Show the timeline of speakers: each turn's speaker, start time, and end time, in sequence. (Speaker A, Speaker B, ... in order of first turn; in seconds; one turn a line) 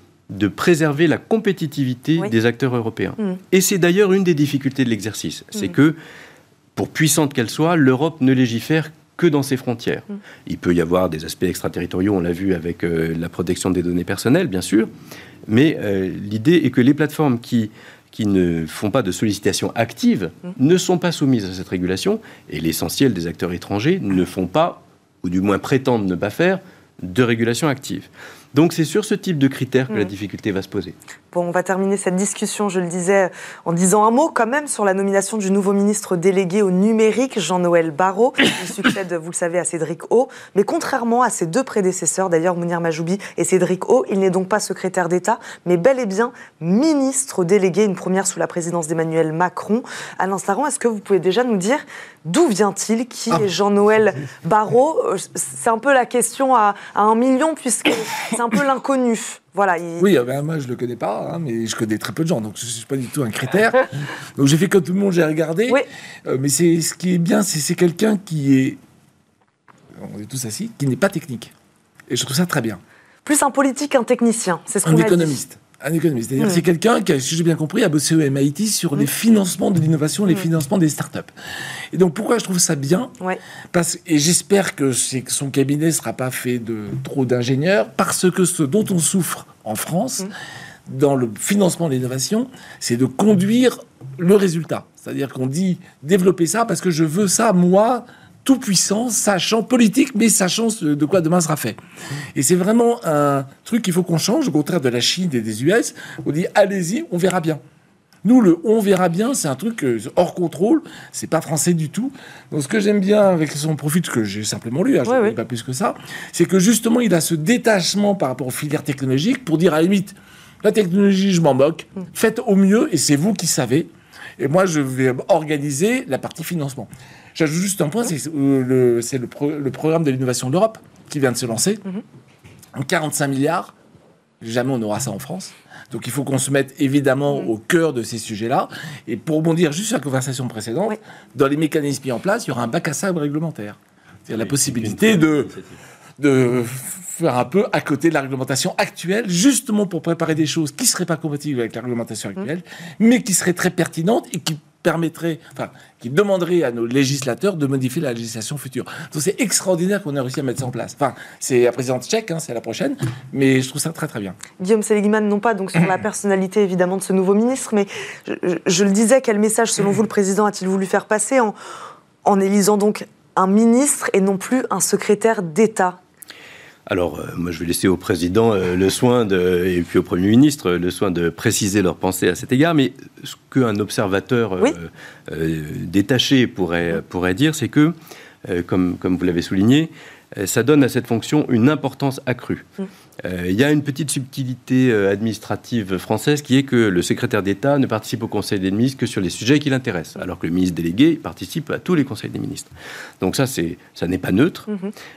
Speaker A: 0.3-6.0
Speaker A: 6.8-14.9
Speaker A: 15.5-30.9
Speaker B: 31.3-60.1
Speaker C: 60.0-68.8
Speaker C: 69.9-71.5
Speaker C: 72.1-72.8
Speaker B: 73.2-75.4
Speaker C: 74.8-81.3
Speaker C: 81.9-83.1
Speaker C: 83.7-90.3
Speaker C: 90.9-101.8
Speaker C: 102.3-107.6
Speaker C: 108.2-131.8
Speaker B: 115.1-115.3
Speaker C: 132.7-133.7
Speaker C: 134.4-145.6
Speaker A: 144.3-145.8
Speaker C: 146.2-164.4
Speaker B: 164.6-171.5
Speaker B: 172.2-176.0
Speaker A: 176.9-192.7
Speaker A: 193.2-202.7
Speaker A: 203.2-204.7